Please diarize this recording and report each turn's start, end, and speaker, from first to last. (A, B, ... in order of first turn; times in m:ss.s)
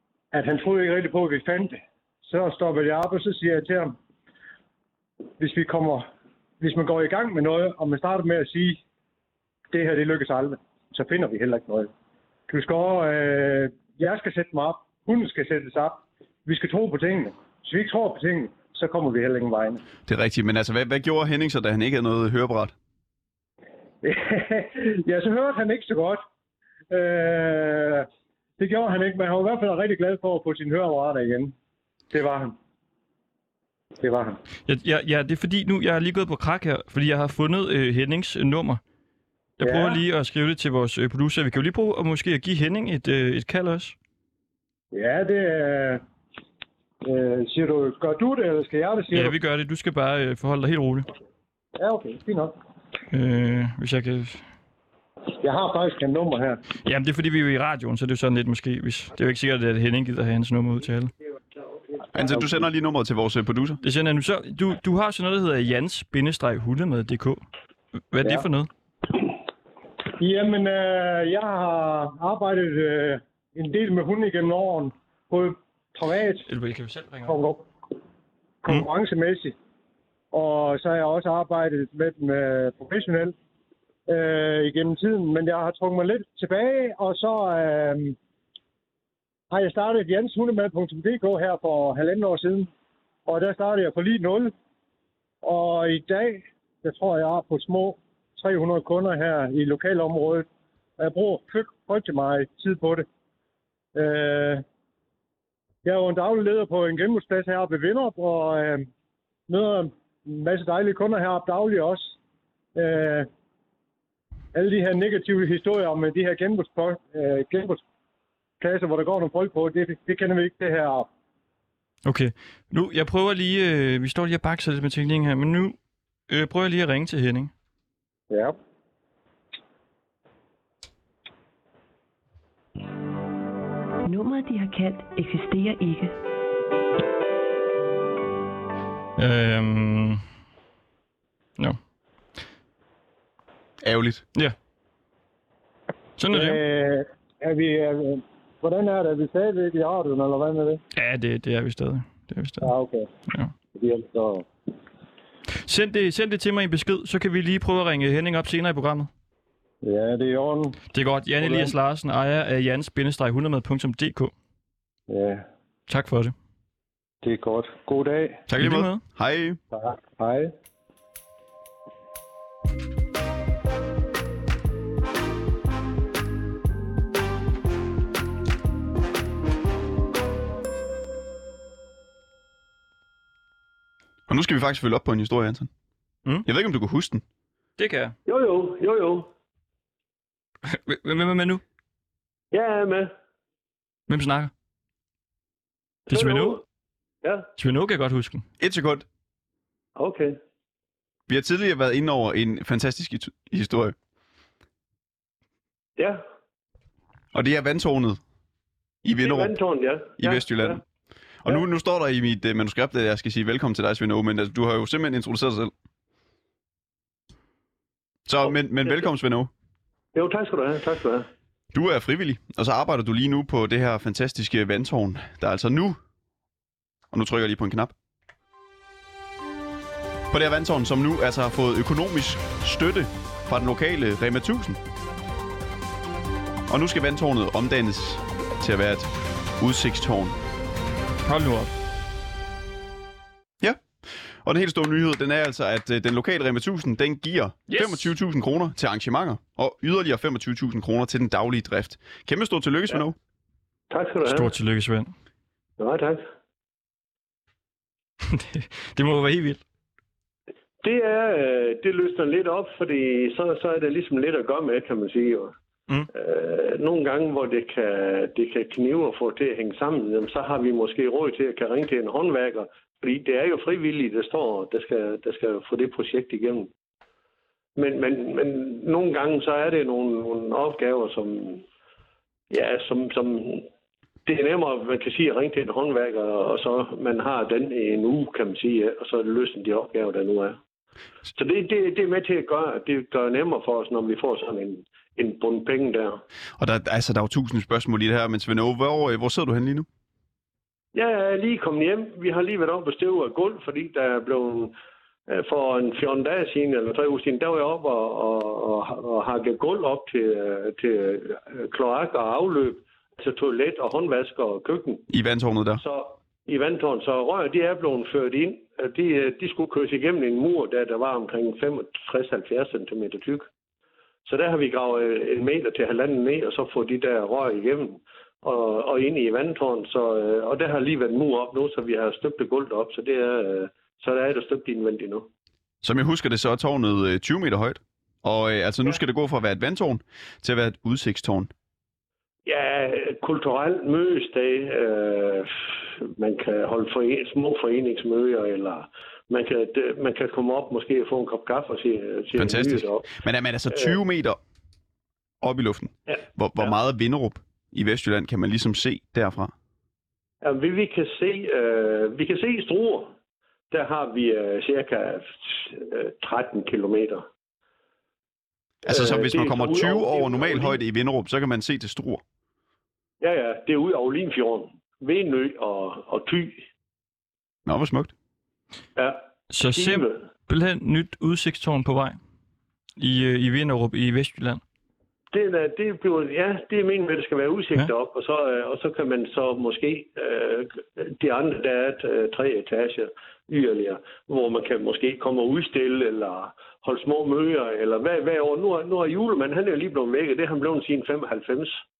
0:00.3-0:04.0 A
0:05.4-0:06.1 A
0:06.6-0:08.8 A
0:09.7-0:11.9 A
0:12.5-0:19.8 A
0:20.1-0:22.7 B
0:24.0-0:26.2 A
0:26.9-0:28.1 A
0:28.6-0:31.5 A
0:32.1-0:32.5 A
0:34.0-0:34.4 A
0:34.6-0:38.8 C
0:39.6-0:43.9 C
0:39.6-0:40.0 A
0:44.9-0:46.0 A
0:47.0-0:49.3 A
0:49.1-0:51.1 C
0:51.8-0:52.5 A
0:53.1-0:54.4 C
0:55.4-0:56.6 A
0:56.8-1:01.1 C
1:02.1-1:03.8 B
1:03.8-1:07.4 C
1:08.1-1:08.7 C
1:10.2-1:16.5 A
1:16.5-1:17.4 C
1:17.2-1:17.7 A
1:18.6-1:19.5 A
1:20.3-1:23.3 A
1:24.1-1:28.2 A
1:29.5-1:32.7 A
1:33.2-1:34.5 A
1:35.4-1:40.5 A
1:41.0-1:43.0 A
1:43.9-1:44.6 A
1:45.8-1:48.9 A
1:49.5-1:52.2 A
1:52.7-1:53.3 A
1:54.5-1:57.8 A
1:58.6-2:01.1 A
2:02.0-2:05.8 C
2:06.3-2:07.5 C
2:08.3-2:08.6 A
2:14.0-2:16.1 D
2:19.2-2:20.2 C
2:23.8-2:24.2 B
2:26.2-2:26.6 C
2:26.3-2:30.8 A
2:30.9-2:32.7 C
2:32.6-2:33.1 A
2:33.8-2:34.5 A
2:35.6-2:39.1 C
2:39.8-2:40.8 A
2:40.9-2:44.3 C
2:41.4-2:41.7 A
2:45.1-2:45.4 A
2:45.9-2:46.3 C
2:47.2-2:48.4 A
2:48.5-2:49.6 B
2:48.6-2:49.0 C
2:49.7-2:50.5 A
3:04.3-3:05.7 B
3:06.4-3:07.2 B
3:07.8-3:08.1 C
3:08.2-3:09.3 E
3:10.6-3:11.6 C
3:12.5-3:13.1 E
3:14.1-3:14.5 C
3:16.1-3:16.6 C
3:16.1-3:16.6 E
3:17.2-3:17.5 E
3:17.6-3:18.4 C
3:18.6-3:19.0 B
3:20.0-3:20.4 E
3:21.3-3:23.9 B
3:27.3-3:28.2 B
3:29.0-3:29.5 B
3:29.2-3:30.8 E
3:30.2-3:30.8 B
3:31.4-3:35.7 B
3:38.3-3:39.5 B
3:38.4-3:39.1 E
3:40.1-3:41.3 E
3:41.7-3:46.0 B
3:47.1-3:47.9 B
3:50.3-3:54.8 B
3:56.7-4:00.4 B
4:01.2-4:01.7 C
4:03.6-4:13.2 B
4:07.7-4:08.1 C
4:13.9-4:14.5 E
4:14.2-4:15.1 C
4:15.8-4:16.2 E
4:18.3-4:19.6 C
4:20.8-4:25.5 E
4:26.1-4:36.7 E
4:37.8-4:41.6 E
4:42.5-4:43.7 E
4:44.2-4:50.6 E
4:51.3-4:56.2 E
4:56.6-4:59.9 B
5:00.9-5:04.7 E
5:05.3-5:15.0 E
5:15.1-5:15.8 B
5:15.8-5:23.5 E
5:24.2-5:35.3 E
5:35.8-5:41.5 B
5:42.4-5:53.1 E
5:52.3-5:54.4 B
5:53.7-5:54.0 E
5:55.4-5:59.5 B
5:56.1-5:56.7 E
6:00.4-6:03.1 E
6:03.7-6:07.3 E
6:08.8-6:12.2 B
6:08.8-6:10.8 E
6:13.2-6:16.6 E
6:17.6-6:18.1 B
6:19.0-6:20.3 E
6:19.5-6:22.2 C
6:23.0-6:24.6 C
6:25.3-6:41.8 E